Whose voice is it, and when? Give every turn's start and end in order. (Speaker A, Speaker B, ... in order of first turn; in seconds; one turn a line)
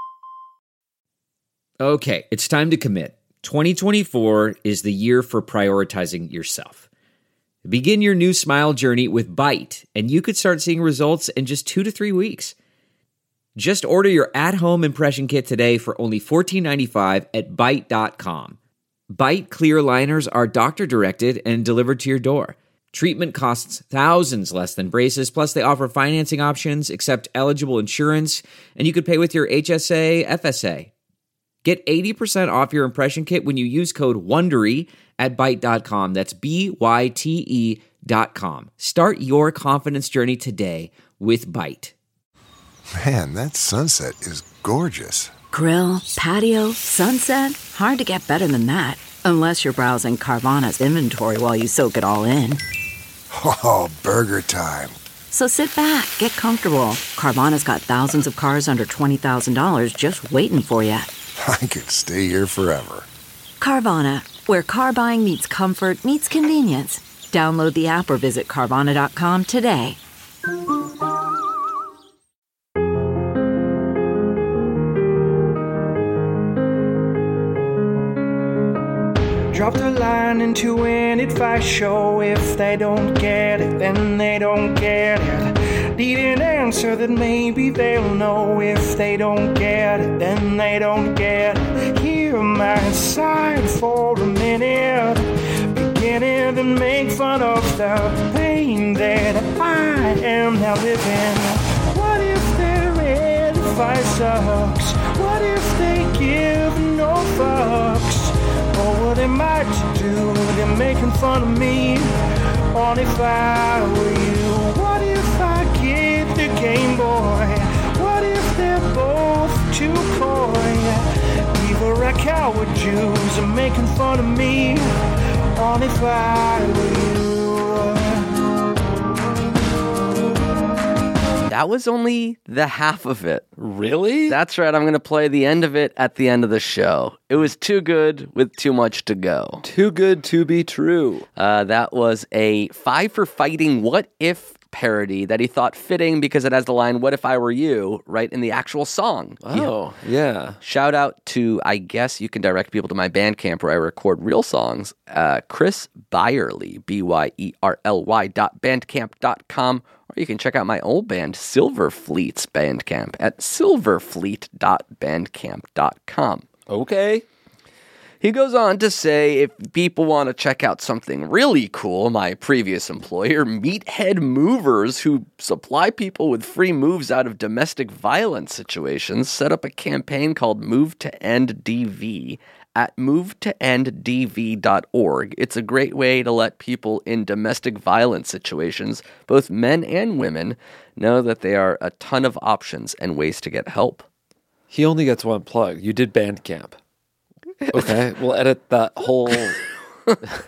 Speaker A: 1.8-6.8
Speaker A: 7.6-12.5
Speaker A: 13.6-18.6
Speaker A: 19.1-30.9
Speaker A: 31.6-41.9
Speaker B: 42.9-45.3
Speaker C: 45.5-52.6
Speaker B: 53.3-55.0
Speaker C: 55.3-61.1
Speaker B: 61.4-63.1
Speaker C: 63.6-70.0
Speaker D: 79.5-112.1
Speaker D: 112.7-124.8
Speaker D: 125.5-128.4
Speaker E: 131.5-133.5
Speaker F: 133.6-134.4
Speaker E: 134.3-139.6
Speaker F: 139.6-141.3
Speaker E: 141.3-149.7
Speaker F: 149.4-150.6
Speaker E: 150.6-166.5
Speaker F: 166.7-167.2
Speaker E: 168.2-194.1
Speaker F: 194.7-196.8
Speaker E: 197.6-198.0
Speaker F: 197.7-199.6